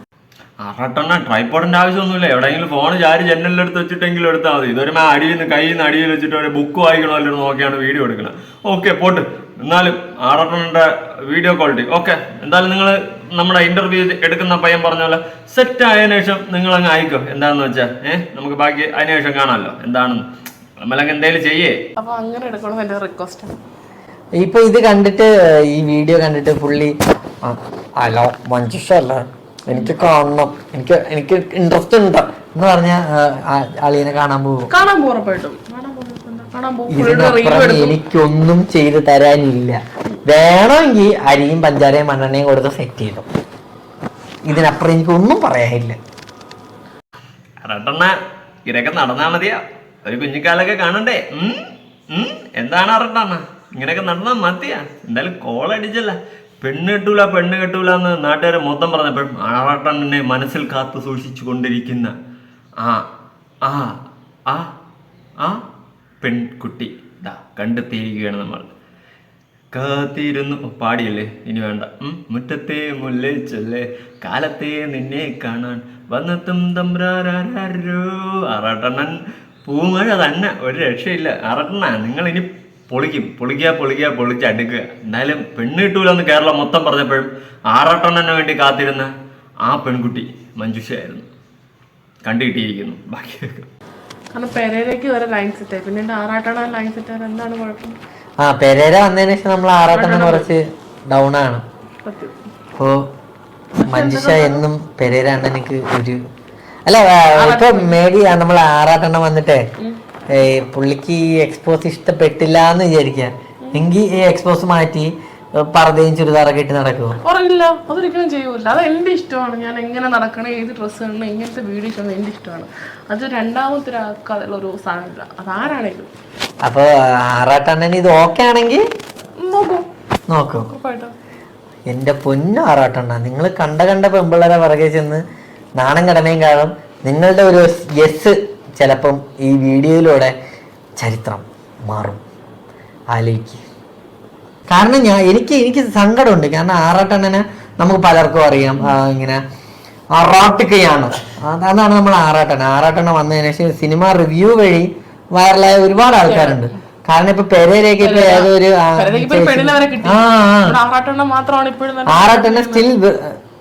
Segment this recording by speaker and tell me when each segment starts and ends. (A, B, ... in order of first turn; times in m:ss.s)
0:00.6-0:20.2 A
0:20.8-0:21.8 A
0:22.0-0:23.5 B
0:24.4-0:34.7 C
0:34.7-0:38.0 B
0:36.9-0:43.2 C
0:44.5-0:46.0 C
0:47.6-0:48.1 A
0:48.7-0:51.6 A
0:52.1-1:02.1 A
1:03.6-1:04.0 A
1:06.2-1:08.7 A
1:09.7-1:29.1 A
1:29.7-1:31.3 A
1:32.2-1:33.7 A
1:34.3-1:38.0 B
1:38.4-1:41.6 C
1:39.9-1:40.5 B
1:42.0-1:42.4 B
1:42.8-1:43.1 C
1:43.8-1:46.2 C
1:43.8-1:44.6 B
1:46.9-1:49.6 C
1:47.4-1:48.0 B
1:50.3-1:57.2 C
1:57.2-2:06.1 B
2:06.6-2:08.8 C
2:09.4-2:09.9 B
2:10.3-2:10.7 C
2:10.7-2:11.1 B
2:11.9-2:15.2 C
2:15.8-2:20.3 C
2:21.0-2:22.2 C
2:23.1-2:23.6 C
2:24.7-2:29.4 C
2:30.2-2:40.8 C
2:36.2-2:36.7 B
2:38.0-2:42.9 B
2:42.1-2:43.4 C